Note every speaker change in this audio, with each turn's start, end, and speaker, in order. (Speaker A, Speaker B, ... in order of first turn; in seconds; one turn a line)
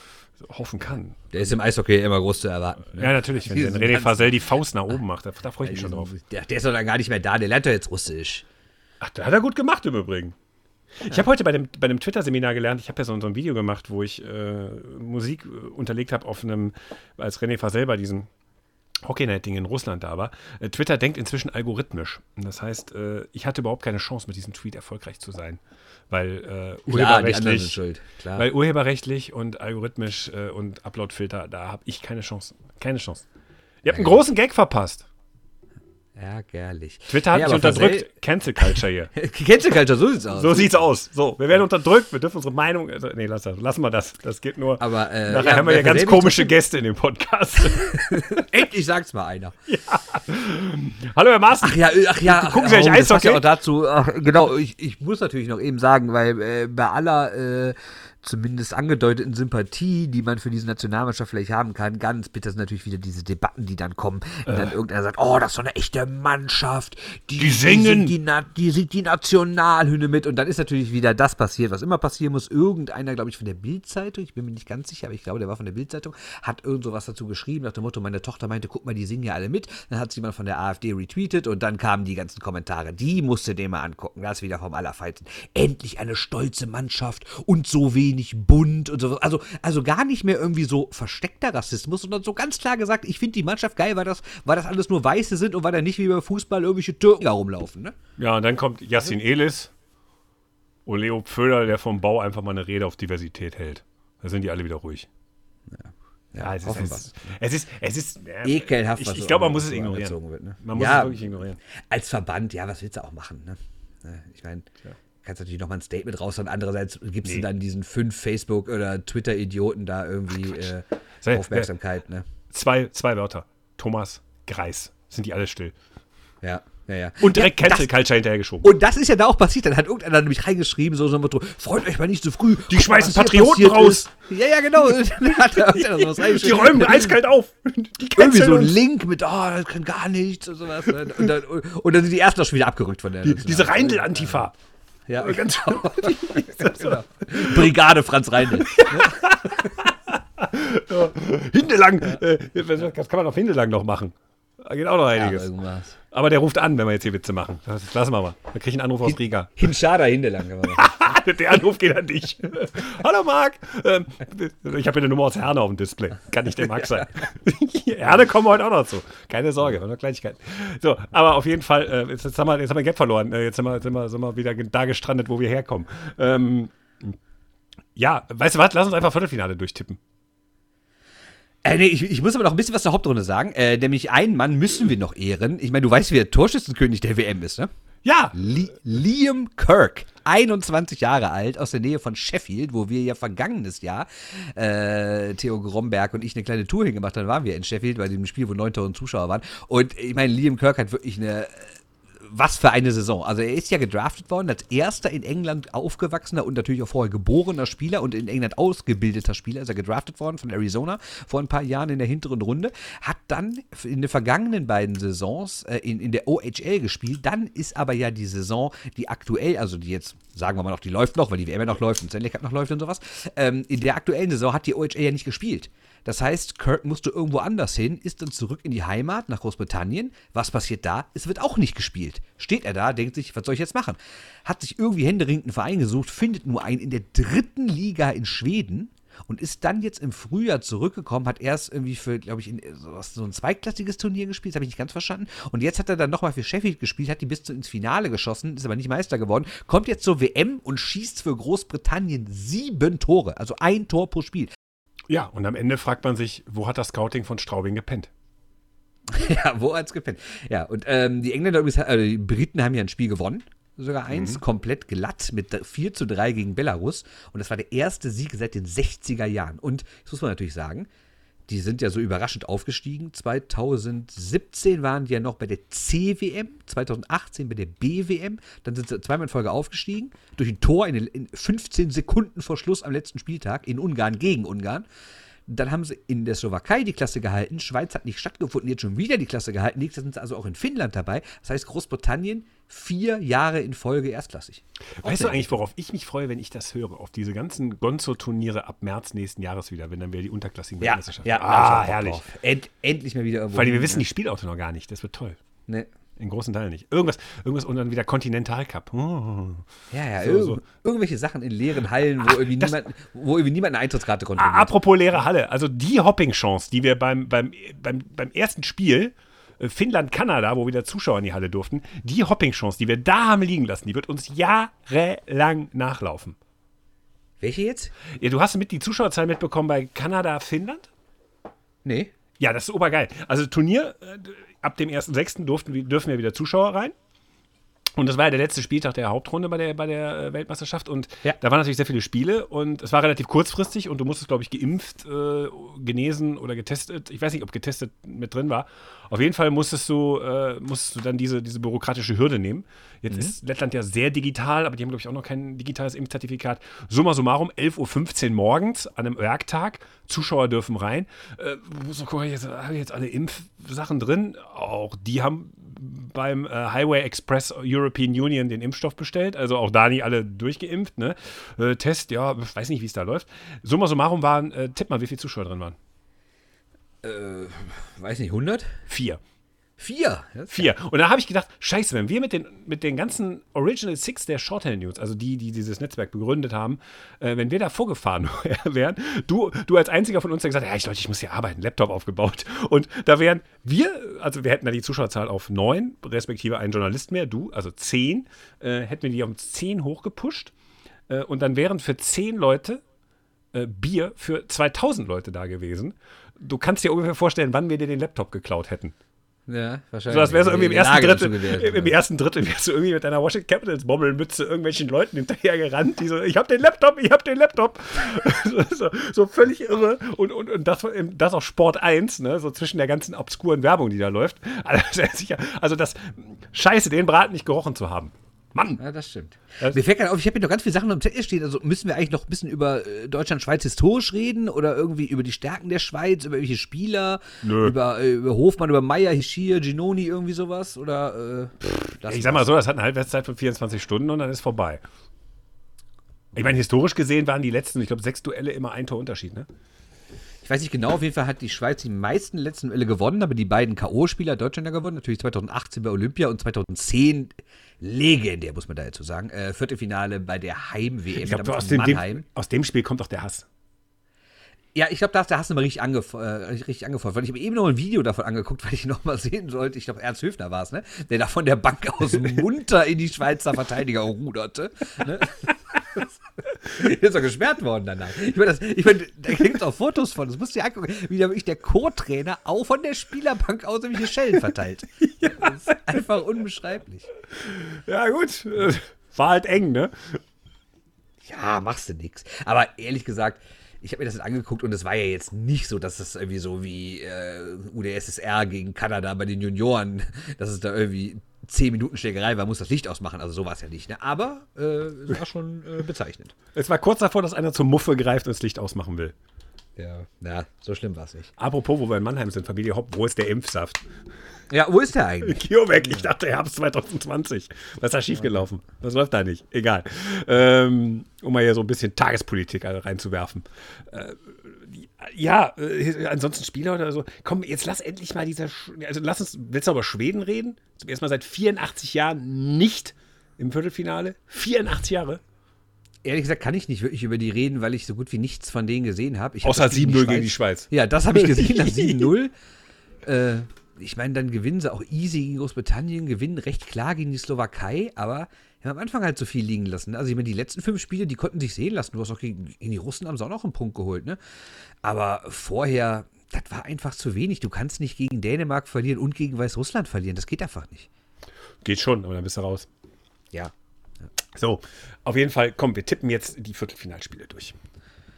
Speaker A: 0.4-1.3
Speaker B: 1.3-4.4
Speaker A: 2.9-6.1
Speaker B: 5.6-8.5
Speaker A: 9.0-10.3
Speaker A: 10.9-18.3
Speaker A: 19.0-27.8
Speaker B: 26.9-28.5
Speaker A: 28.4-33.3
Speaker A: 33.8-35.1
Speaker B: 33.9-34.2
Speaker B: 36.1-38.1
Speaker A: 37.1-39.1
Speaker B: 38.6-40.8
Speaker A: 40.3-48.5
Speaker B: 44.8-46.5
Speaker B: 47.7-49.6
Speaker A: 49.7-53.5
Speaker B: 51.6-98.0
Speaker A: 64.5-64.7
Speaker A: 67.4-68.1
Speaker A: 98.2-99.7
Speaker A: 100.9-105.1
Speaker B: 105.7-107.0
Speaker A: 106.4-111.6
Speaker B: 108.4-111.3
Speaker B: 111.8-114.7
Speaker B: 115.2-122.3
Speaker A: 121.2-121.7
Speaker A: 122.5-125.7
Speaker B: 126.4-128.0
Speaker A: 127.2-128.7
Speaker B: 128.6-137.2
Speaker A: 132.7-134.1
Speaker A: 135.3-138.8
Speaker B: 138.2-144.5
Speaker A: 143.2-144.5
Speaker B: 145.1-149.7
Speaker A: 145.2-147.7
Speaker A: 148.6-155.5
Speaker B: 155.1-156.0
Speaker A: 156.1-159.7
Speaker B: 159.1-160.9
Speaker A: 160.7-177.2
Speaker B: 166.7-167.0
Speaker A: 178.0-180.0
Speaker B: 181.6-187.7
Speaker A: 188.1-188.4
Speaker B: 188.3-254.5
Speaker A: 255.1-258.1
Speaker B: 259.1-270.9
Speaker A: 264.1-264.4
Speaker B: 271.5-284.9
Speaker B: 285.5-295.6
Speaker A: 295.0-302.2
Speaker B: 300.8-304.0
Speaker A: 303.5-305.4
Speaker A: 306.2-309.7
Speaker B: 309.9-314.7
Speaker A: 310.2-310.6
Speaker A: 312.2-312.8
Speaker A: 314.4-326.4
Speaker B: 327.4-327.9
Speaker A: 328.1-330.9
Speaker B: 331.8-332.1
Speaker A: 332.4-336.9
Speaker A: 338.0-375.8
Speaker B: 377.0-378.8
Speaker A: 378.9-379.2
Speaker B: 379.8-380.7
Speaker A: 380.5-400.5
Speaker A: 401.1-402.8
Speaker A: 403.5-408.9
Speaker B: 409.5-411.9
Speaker A: 410.1-428.8
Speaker B: 428.8-442.5
Speaker A: 437.4-437.8
Speaker A: 441.7-444.8
Speaker A: 446.3-449.5
Speaker B: 450.4-462.2
Speaker A: 461.2-463.5
Speaker B: 464.8-487.1
Speaker A: 485.0-485.9
Speaker A: 487.4-490.2
Speaker B: 491.2-506.4
Speaker A: 506.5-509.1
Speaker B: 509.8-511.3
Speaker A: 511.4-513.9
Speaker B: 514.5-516.1
Speaker A: 515.2-535.2
Speaker B: 536.0-542.3
Speaker A: 539.4-542.1
Speaker B: 543.0-554.2
Speaker B: 554.8-560.9
Speaker A: 561.6-562.7
Speaker A: 564.4-567.6